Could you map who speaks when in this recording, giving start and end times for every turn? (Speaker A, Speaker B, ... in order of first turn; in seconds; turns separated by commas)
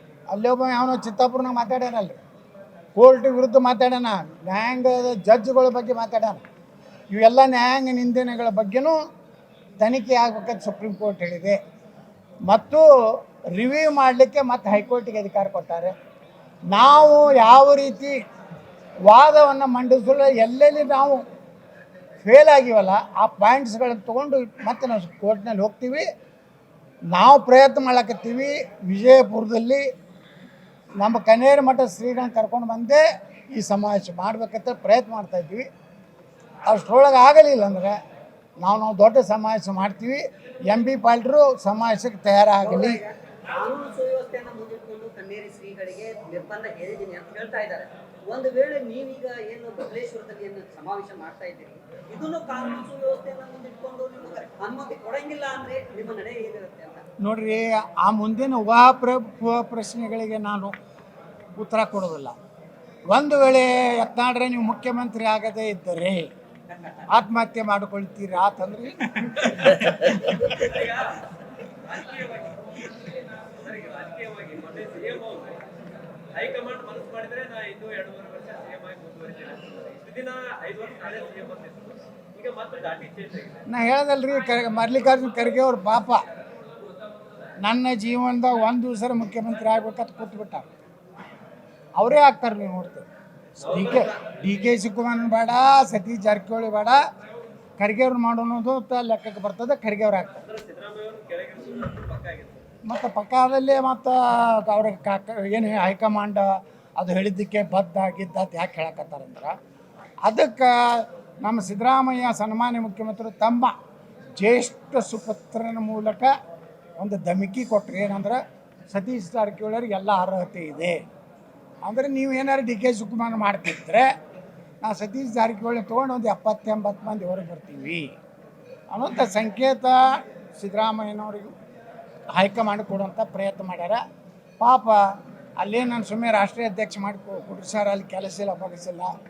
Speaker A: 0.3-2.2, Speaker A: 2.9-6.4, Speaker A: 7.1-9.0, Speaker A: 9.8-11.6, Speaker A: 12.5-12.9, Speaker A: 13.5-15.9, Speaker A: 16.7-18.2, Speaker A: 19.1-21.2, Speaker A: 22.2-26.1, Speaker A: 27.1-29.9, Speaker A: 31.0-35.7, Speaker A: 36.7-38.0, Speaker A: 38.6-43.0, Speaker B: 42.6-57.0, Speaker A: 57.2-60.7, Speaker A: 61.5-62.4, Speaker A: 63.1-66.3, Speaker A: 67.1-70.6, Speaker C: 70.6-75.7, Speaker C: 76.3-83.6, Speaker A: 83.7-86.2, Speaker A: 87.6-90.7, Speaker A: 92.0-93.1, Speaker A: 93.6-97.0, Speaker C: 93.7-94.1, Speaker A: 97.8-100.5, Speaker C: 100.4-102.6, Speaker A: 102.9-109.5, Speaker A: 110.2-113.8, Speaker A: 114.4-116.3, Speaker A: 117.0-121.0, Speaker A: 121.8-124.1, Speaker A: 124.8-128.1, Speaker A: 128.9-131.5, Speaker A: 132.3-134.0, Speaker A: 134.6-135.0, Speaker A: 135.6-139.1